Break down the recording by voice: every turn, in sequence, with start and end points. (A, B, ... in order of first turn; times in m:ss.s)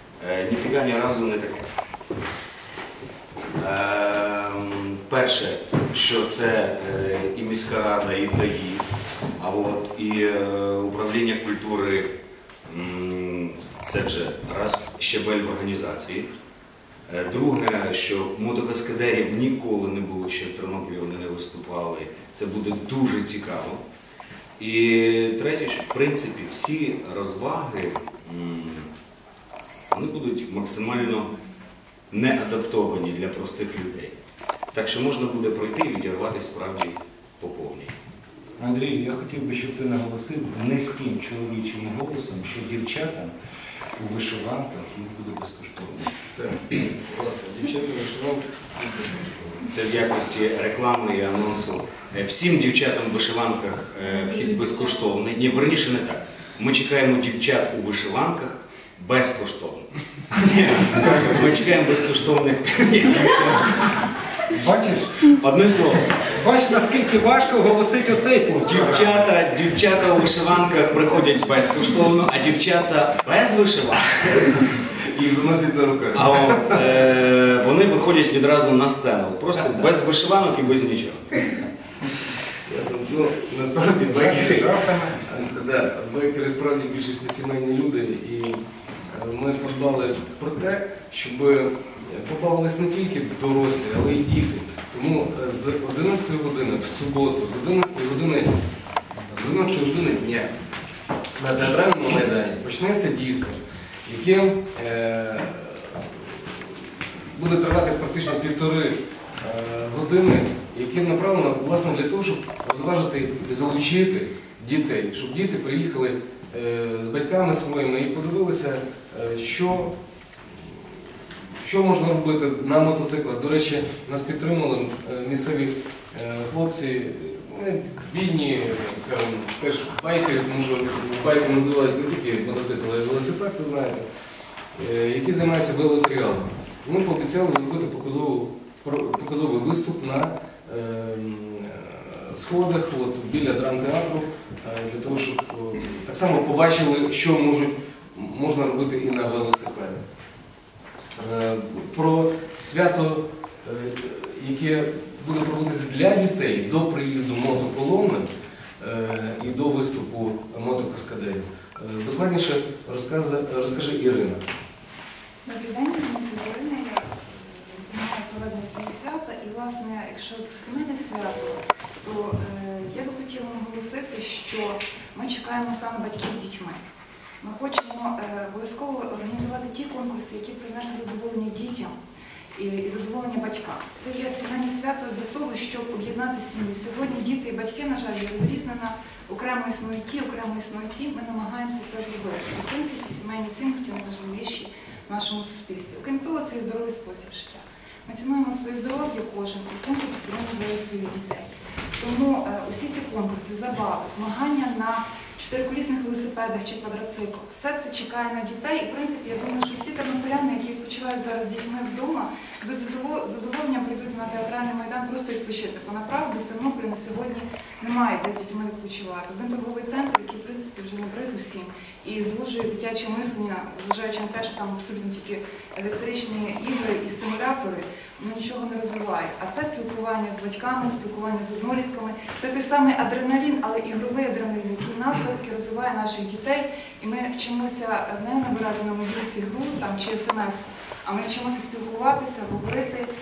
0:00.2-0:01.7 A
0:03.6-0:08.8 A
0:09.4-0:12.1 A
0:12.7-0:16.3 A
0:17.1-0:23.8 A
0:24.6-0:28.9 A
0:29.9-0:31.3 A
0:32.1-0:34.2 A
0:34.7-0:38.0 A
0:38.6-0:43.3 B
0:44.0-0:46.2 B
0:46.4-0:49.6 C
0:49.7-1:04.5 A
1:04.5-1:05.2 B
1:05.2-1:06.3 A
1:06.3-1:09.3 B
1:08.6-1:14.7 A
1:14.9-1:16.8 C
1:16.2-1:21.4 A
1:22.7-1:38.5 C
1:24.2-1:25.2 B
1:39.3-1:40.5 C
1:41.4-1:59.9 C
2:00.5-2:01.0 C
2:01.5-2:14.1 C
2:14.8-2:30.0 C
2:31.2-2:38.3 C
2:38.8-2:44.4 C
2:45.4-2:56.8 D
2:57.4-3:01.9 D
3:02.6-4:03.1 D